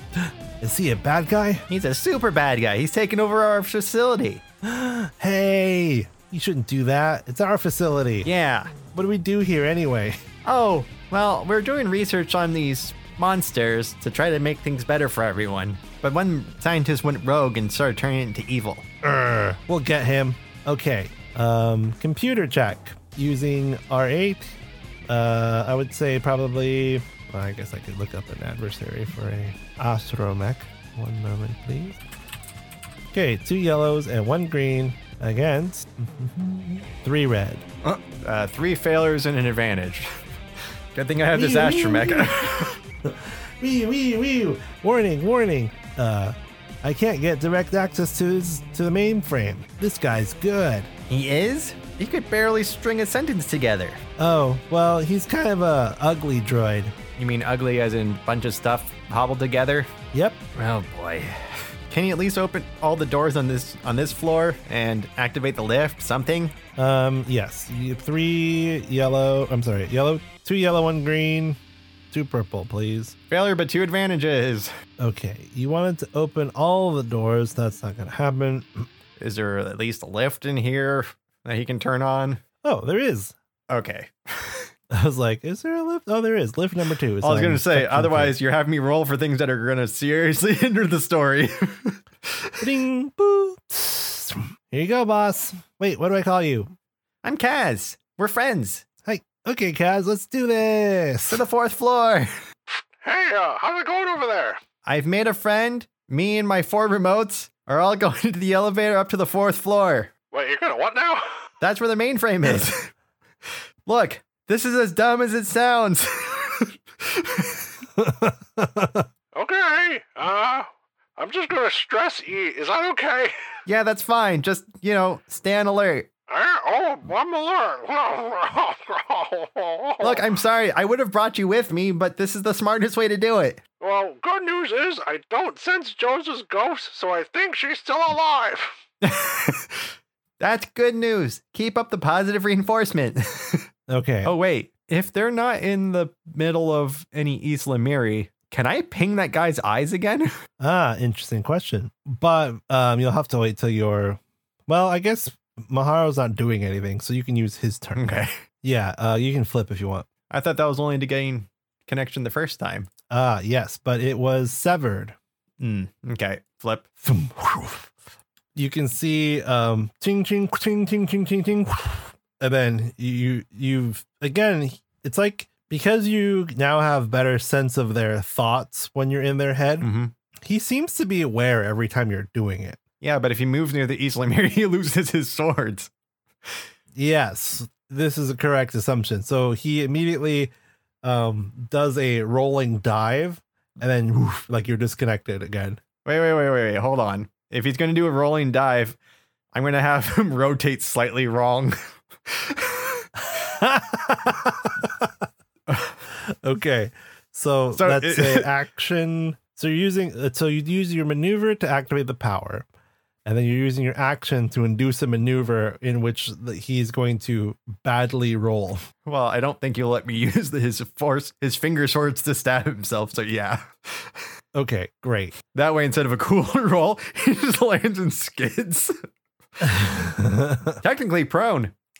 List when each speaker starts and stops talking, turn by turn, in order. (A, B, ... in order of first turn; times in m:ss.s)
0:00.2-0:01.6 A
0:01.7-0:04.4 B
0:04.6-0:08.3 A
0:08.2-0:08.8 B
0:08.9-0:10.2 A
0:10.4-0:18.9 B
0:19.0-0:24.6 A
0:25.1-0:32.0 A
0:33.1-0:37.7 A
0:37.8-0:40.2 B
0:40.9-0:42.8 B
0:41.3-0:42.3 A
0:43.0-0:50.9 A
0:51.1-0:54.0 B
0:54.2-0:56.9 A
0:57.2-0:59.9 B
1:00.1-1:00.4 A
1:00.5-1:06.6 B
1:06.8-1:11.6 A
1:12.1-1:13.2 A
1:13.3-1:14.7 B
1:15.0-1:18.9 A
1:19.2-1:22.4 B
1:22.6-1:23.3 A
1:23.7-1:24.7 B
1:24.9-1:28.4 A
1:27.2-1:32.6 B
1:32.6-1:36.7 A
1:37.2-1:38.8 B
1:39.0-1:41.4 A
1:41.3-1:42.3 B
1:42.7-1:44.6 C
1:44.8-1:50.1 B
1:50.3-1:51.4 C
1:51.6-1:52.9 B
1:53.9-1:57.7 B
1:58.0-1:59.1 A
1:59.3-2:03.5 C
2:03.7-2:06.1 B
2:06.3-2:10.3 C
2:10.0-2:13.6 B
2:13.8-2:18.7 C
2:19.0-2:23.7 B
2:23.9-2:24.3 A
2:24.2-2:30.3 B
2:30.6-2:40.1 A
2:38.0-2:38.3 B
2:40.3-2:42.9 B
2:43.1-2:45.2 A
2:45.6-2:46.8 B
2:47.0-2:47.9 A
2:48.6-2:59.9 A
2:59.8-3:00.1 B
3:00.4-3:02.8 A
3:03.0-3:05.9 B
3:07.0-3:15.8 A
3:16.0-3:19.0 B
3:19.5-3:23.0 B
3:23.2-3:25.1 A
3:26.2-3:32.7 A
3:27.8-3:28.5 B
3:33.2-3:38.8 A
3:39.0-3:44.3 B
3:44.5-3:45.4 A
3:45.5-3:49.0 B
3:49.6-3:50.8 A
3:50.8-3:51.7 B